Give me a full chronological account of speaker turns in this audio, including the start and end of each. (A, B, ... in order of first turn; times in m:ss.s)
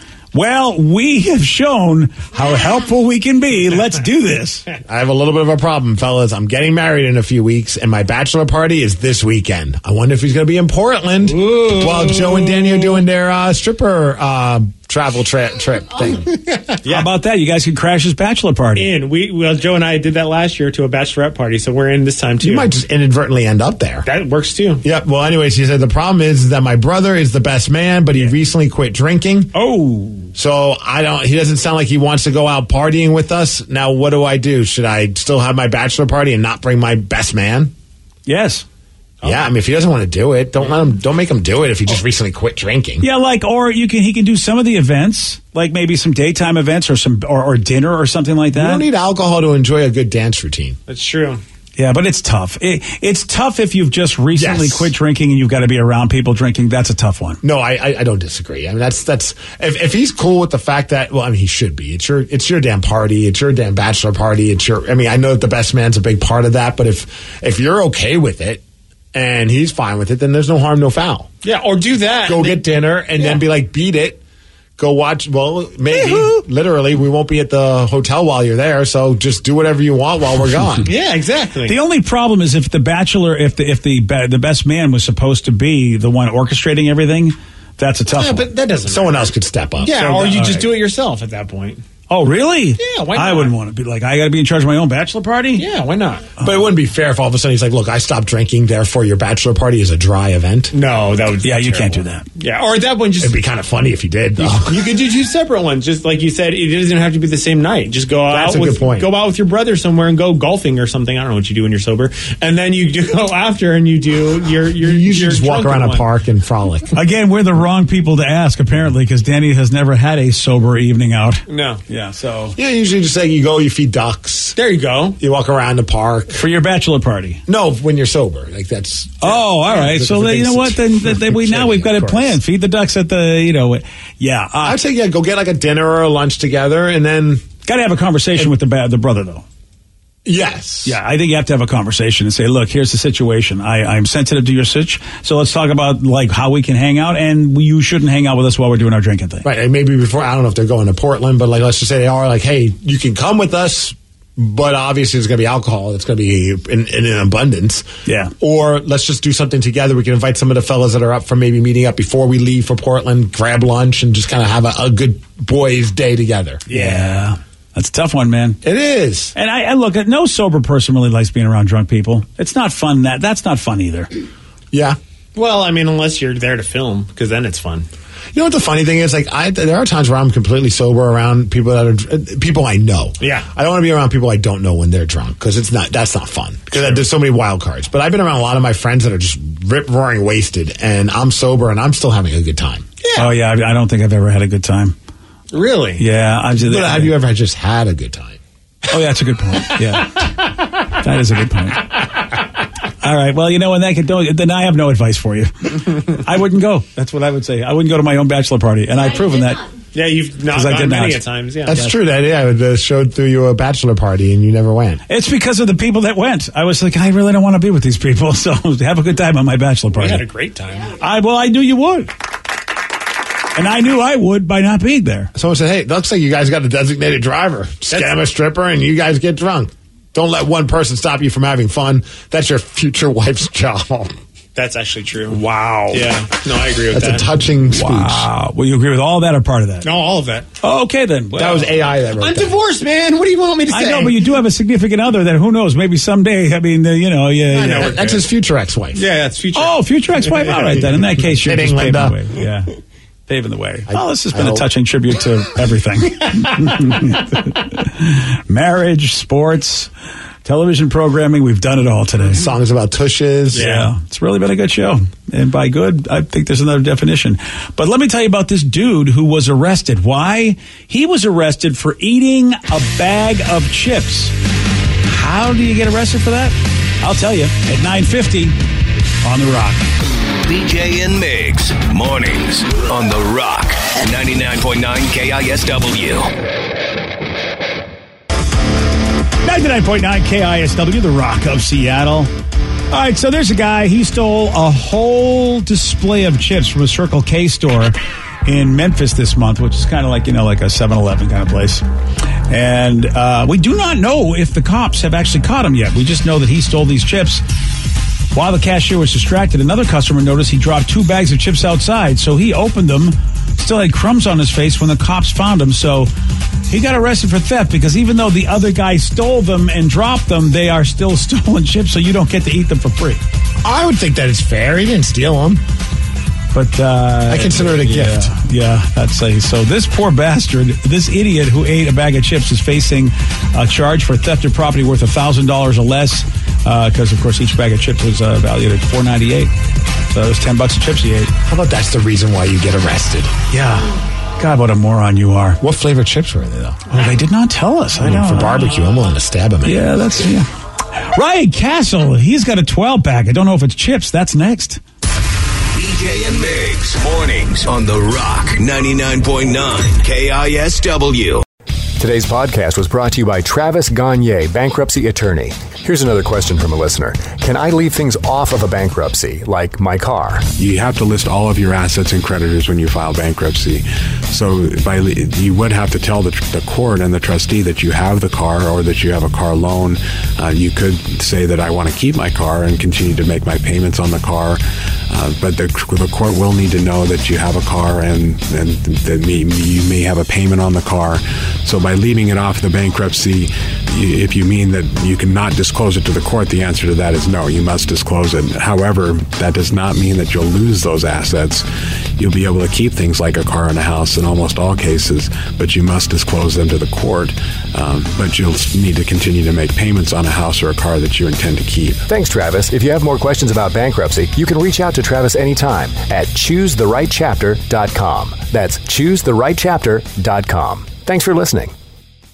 0:00.3-0:04.6 A
0:04.8-0:16.4 B
0:11.2-0:13.0 C
0:16.5-0:17.1 C
0:16.8-0:18.9 A
0:18.8-0:22.7 C
0:22.4-0:24.1 B
0:24.0-0:24.8 C
0:24.8-0:29.5 B
0:29.5-0:30.3 A
0:30.4-0:37.7 B
0:38.3-0:38.6 A
0:39.2-0:43.1 B
0:43.0-0:48.8 A
0:48.5-0:50.8 B
0:50.9-0:51.4 C
0:51.8-0:57.4 A
0:54.4-0:54.9 B
0:57.4-1:08.6 B
1:09.1-1:11.3 B
1:11.4-1:13.4 C
1:12.3-1:14.2 B
1:14.8-1:20.9 B
1:15.9-1:16.4 A
1:20.8-1:21.8 C
1:21.6-1:28.5 A
1:28.1-1:31.8 C
1:28.9-1:30.0 B
1:30.0-1:30.7 A
1:32.1-1:35.7 A
1:32.8-1:33.6 C
1:35.6-1:36.4 C
1:36.4-1:40.8 B
1:40.7-1:43.4 C
1:41.4-1:42.3 A
1:43.2-1:44.9 B
1:44.4-1:56.1 C
1:48.3-1:49.1 B
1:54.8-1:56.9 B
1:56.9-2:02.6 A
2:01.5-2:01.8 C
2:02.6-2:04.6 B
2:04.6-2:05.2 C
2:05.2-2:06.4 B
2:06.3-2:07.4 A
2:07.5-2:12.4 B
2:09.2-2:14.8 A
2:14.6-2:17.5 B
2:17.6-2:19.4 A
2:20.2-2:21.0 B
2:20.8-2:29.4 A
2:29.4-2:46.6 B
2:38.1-2:38.3 A
2:46.7-2:47.1 C
2:46.7-2:48.6 A
2:48.6-2:49.3 B
2:49.4-2:54.1 A
2:54.7-2:55.0 B
2:55.4-2:57.9 C
2:58.3-3:12.9 B
3:03.2-3:03.5 C
3:06.7-3:07.0 C
3:13.0-3:13.3 C
3:13.2-3:15.0 A
3:15.5-3:16.0 C
3:16.0-3:17.1 A
3:16.6-3:18.4 B
3:18.9-3:22.1 A
3:23.0-3:29.6 A
3:29.9-3:31.8 C
3:30.5-3:31.9 A
3:31.7-3:35.0 B
3:35.1-3:40.2 A
3:39.9-3:41.0 C
3:41.0-3:42.1 A
3:43.6-3:45.3 A
3:45.4-3:54.1 B
3:47.9-3:48.2 C
3:54.6-3:57.3 C
3:55.3-3:56.1 A
3:56.9-3:58.3 B
3:57.7-3:59.9 A
3:59.8-4:00.5 C
4:00.6-4:01.7 A
4:01.3-4:01.7 C
4:01.4-4:02.6 B
4:02.2-4:04.3 C
4:03.7-4:08.0 A
4:07.5-4:08.3 C
4:07.8-4:09.1 B
4:08.9-4:11.0 C
4:09.6-4:12.7 A
4:11.1-4:12.2 B
4:13.3-4:19.9 A
4:13.9-4:14.7 B
4:20.4-4:22.4 A
4:22.3-4:23.7 B
4:23.5-4:23.9 C
4:23.5-4:34.3 A
4:35.0-4:38.6 A
4:39.2-4:39.8 A
4:40.4-4:46.3 D
4:49.4-4:52.3 A
4:52.9-5:01.8 A
5:02.5-5:07.4 A
5:08.3-5:16.1 A
5:16.7-5:23.2 A
5:23.6-5:25.6 B
5:26.5-5:39.5 A
5:27.3-5:28.3 B
5:40.1-5:41.3 A
5:41.5-5:43.3 B
5:43.5-5:45.6 A
5:45.6-5:46.9 B
5:46.9-5:48.8 A
5:48.0-5:49.9 B
5:49.6-5:54.8 A
5:55.7-6:01.4 D
6:02.0-6:10.5 E
6:10.6-6:41.7 F
6:42.2-6:52.1 F
6:52.1-7:01.7 E